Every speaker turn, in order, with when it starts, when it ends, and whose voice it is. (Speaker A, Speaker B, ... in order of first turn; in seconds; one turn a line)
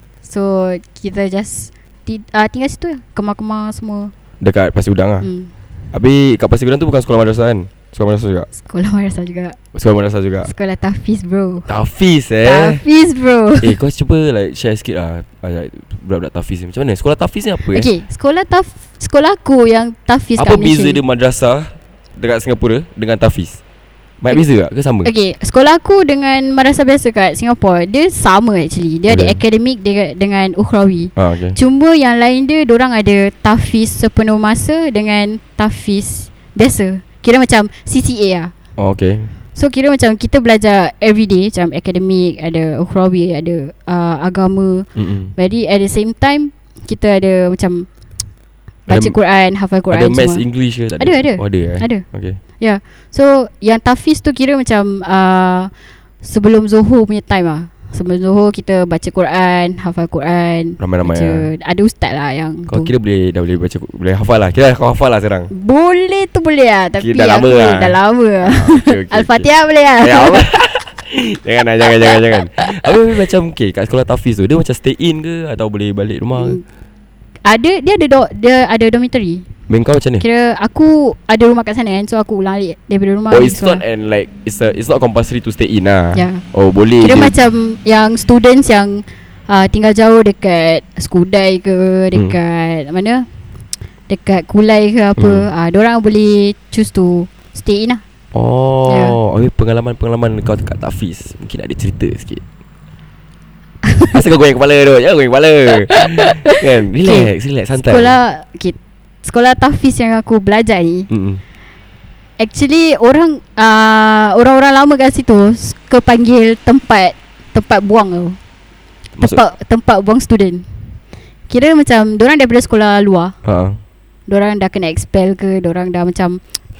Speaker A: 0.2-4.1
Speaker B: 4.4-5.3
Speaker A: 5.2-5.5
Speaker B: 5.9-8.5
Speaker A: 8.5-9.6
Speaker B: 9.7-10.5
Speaker A: 10.4-11.7
Speaker B: 11.7-12.8
Speaker A: 12.4-13.8
Speaker B: 13.6-17.9
Speaker A: 17.7-21.0
Speaker B: 20.4-23.6
Speaker B: 24.2-25.1
Speaker A: 25.0-38.5
Speaker B: 29.1-29.4
Speaker B: 31.1-31.6
Speaker B: 38.8-39.3
Speaker A: 39.5-47.9
Speaker B: 44.9-45.3
Speaker A: 48.9-50.4
Speaker B: 48.9-49.1
Speaker B: 49.9-52.4
Speaker A: 51.0-52.0
Speaker A: 52.6-55.7
Speaker A: 56.2-62.9
Speaker B: 60.8-61.5
Speaker B: 62.7-65.5
Speaker A: 65.5-70.6
Speaker B: 67.0-69.5
Speaker B: 70.0-76.6
Speaker A: 71.9-72.8
Speaker A: 76.4-76.6
Speaker A: 77.4-79.5
Speaker B: 79.7-80.2
Speaker A: 80.2-83.8
Speaker B: 83.3-87.3
Speaker A: 86.1-86.4
Speaker A: 87.0-93.3
Speaker A: 94.1-98.0
Speaker B: 95.2-95.5
Speaker B: 98.3-102.4
Speaker A: 98.9-99.2
Speaker A: 103.8-104.2
Speaker B: 104.1-108.2
Speaker A: 106.2-111.1
Speaker B: 111.1-111.4
Speaker A: 112.4-118.4
Speaker A: 119.2-120.7
Speaker A: 121.5-123.3
Speaker B: 123.4-123.8
Speaker A: 124.3-126.4